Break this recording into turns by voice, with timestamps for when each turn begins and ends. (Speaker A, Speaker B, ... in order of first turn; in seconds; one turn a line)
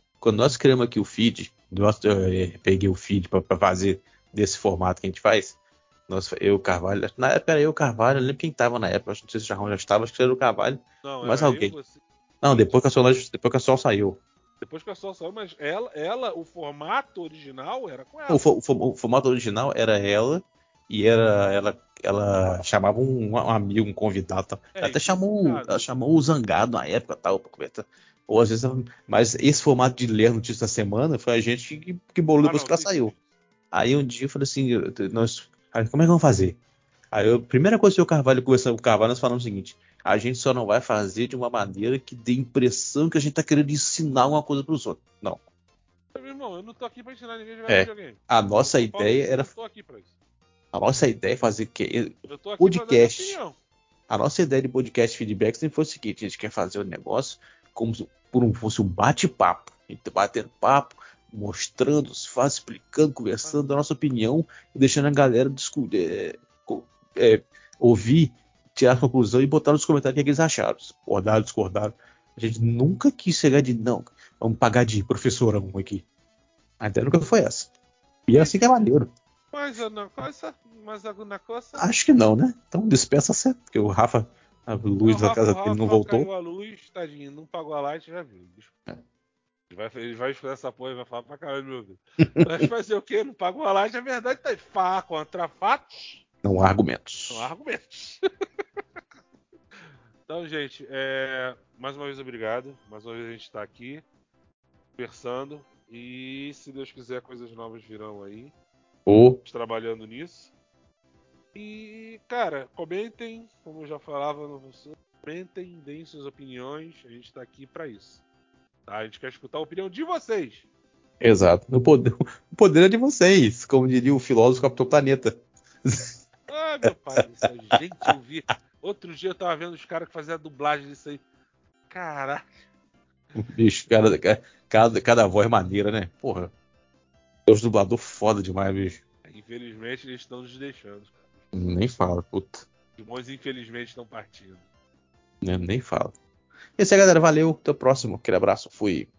Speaker A: 0.2-5.6
Speaker A: 6.1-11.8
Speaker B: 11.0-12.8
Speaker A: 12.4-14.2
Speaker B: 14.6-18.4
Speaker A: 18.3-33.1
Speaker B: 24.8-25.9
Speaker B: 32.4-33.2
Speaker A: 33.7-36.6
Speaker A: 37.1-45.4
Speaker B: 46.1-50.1
Speaker A: 47.7-49.5
Speaker A: 50.7-53.4
Speaker B: 52.3-53.6
Speaker A: 54.1-76.0
Speaker A: 76.8-77.7
Speaker A: 78.3-79.1
Speaker B: 78.3-78.8
Speaker B: 79.5-81.9
Speaker A: 81.8-86.3
Speaker B: 85.0-88.7
Speaker B: 89.7-96.2
Speaker A: 92.2-92.6
Speaker A: 96.4-97.5
Speaker B: 97.3-98.2
Speaker B: 100.3-104.0
Speaker B: 105.0-108.5
Speaker A: 109.1-109.4
Speaker B: 109.5-110.5
Speaker B: 111.5-118.2
Speaker B: 118.9-120.7
Speaker A: 121.2-126.3
Speaker B: 126.5-131.2
Speaker B: 131.9-132.5
Speaker A: 133.3-136.5
Speaker A: 137.5-139.0
Speaker B: 139.2-141.2
Speaker A: 141.5-142.7
Speaker B: 143.0-144.7
Speaker A: 145.4-146.2
Speaker A: 146.8-149.1